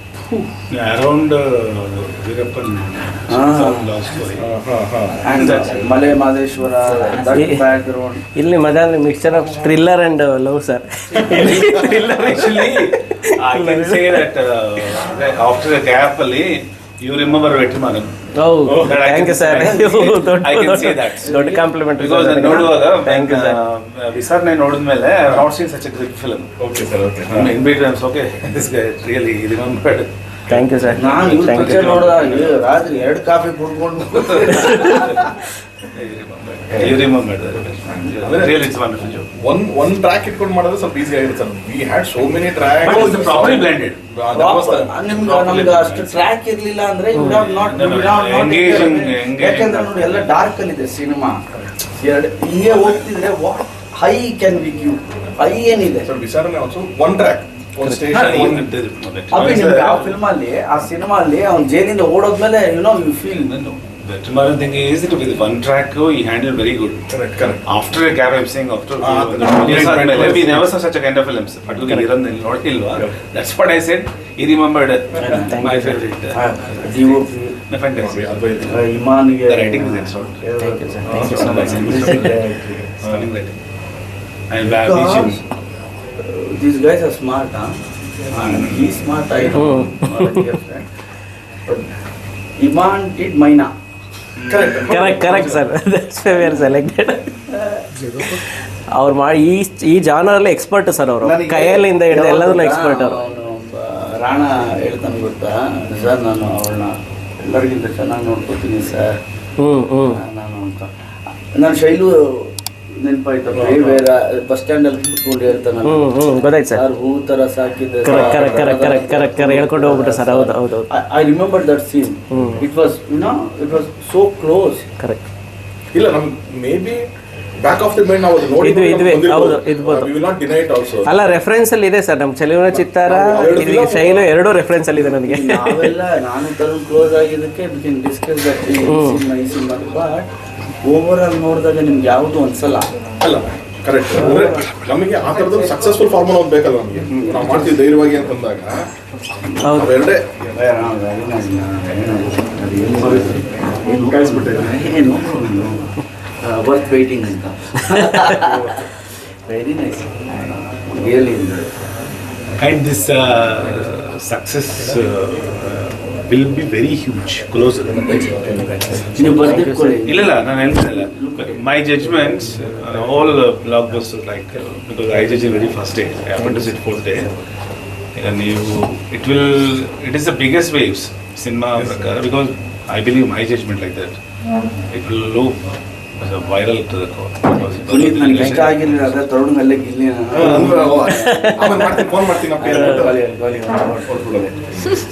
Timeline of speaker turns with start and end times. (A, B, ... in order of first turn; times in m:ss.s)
0:00.7-0:04.4 A
0:03.3-0:03.9 B
0:04.4-0:05.3 C
0:05.2-0:08.2 B
0:05.2-0:06.0 A
0:07.3-0:07.6 D
0:08.3-0:14.2 D
0:11.3-0:18.1 A
0:11.4-0:11.7 C
0:18.4-0:23.6 D
0:18.6-0:19.0 C
0:18.8-0:21.3 A
0:21.2-0:21.7 B
0:22.0-0:26.5 A
0:26.6-0:27.5 C
0:27.3-0:32.8 A
0:30.5-0:32.0 D
0:31.0-0:35.3 B
0:34.8-0:35.3 A
0:35.8-0:39.3 A
0:36.7-0:37.1 B
0:38.2-0:38.7 C
0:39.4-0:45.0 C
0:42.8-0:44.0 A
0:44.3-0:51.4 B
0:45.1-0:46.2 A
0:47.1-0:47.4 D
0:47.2-0:50.3 A
0:52.0-0:56.1 B
0:56.0-0:58.7 C
0:58.1-1:00.2 A
0:59.3-1:03.5 B
1:03.4-1:07.1 A
1:07.1-1:07.6 C
1:07.6-1:18.8 A
1:09.0-1:10.7 C
1:11.7-1:12.0 C
1:15.2-1:15.6 B
1:15.2-1:16.0 D
1:16.3-1:17.6 B
1:18.0-1:18.8 C
1:18.7-1:22.2 B
1:19.4-1:20.4 A
1:20.6-1:22.1 D
1:21.0-1:23.3 C
1:21.2-1:23.6 A
1:24.5-1:25.4 A
1:24.6-1:25.4 B
1:26.2-1:30.8 B
1:29.5-1:30.4 D
1:32.6-1:33.7 B
1:34.4-1:34.8 A
1:34.4-1:35.6 C
1:34.8-1:37.4 D
1:37.5-1:38.3 B
1:38.2-1:43.2 D
1:41.2-1:49.2 B
1:49.6-1:50.2 D
1:50.1-1:50.9 B
1:51.5-2:04.8 B
1:53.5-1:54.0 C
1:55.8-1:56.8 D
1:58.0-2:00.9 D
1:58.1-1:58.7 C
2:02.3-2:02.6 D
2:05.9-2:07.0 C
2:07.6-2:11.1 C
2:08.6-2:10.1 D
2:11.0-2:15.9 D
2:13.1-2:14.3 C
2:15.2-2:20.3 B
2:18.9-2:19.2 D
2:20.8-2:22.9 B
2:23.2-2:28.7 C
2:24.2-2:24.5 D
2:29.6-2:30.0 D
2:29.7-2:30.2 C
2:30.5-2:41.7 B
2:34.0-2:34.9 C
2:42.6-2:49.3 A
2:47.9-2:49.2 C
2:49.2-2:51.6 B
2:49.2-2:50.0 D
2:50.0-2:57.3 A
2:56.4-2:56.7 D
2:58.1-3:04.2 A
3:01.7-3:02.1 C
3:04.9-3:09.1 A
3:07.8-3:11.8 B
3:10.3-3:13.2 C
3:10.4-3:12.0 D
3:12.6-3:14.5 B
3:12.6-3:13.0 D
3:14.0-3:14.9 C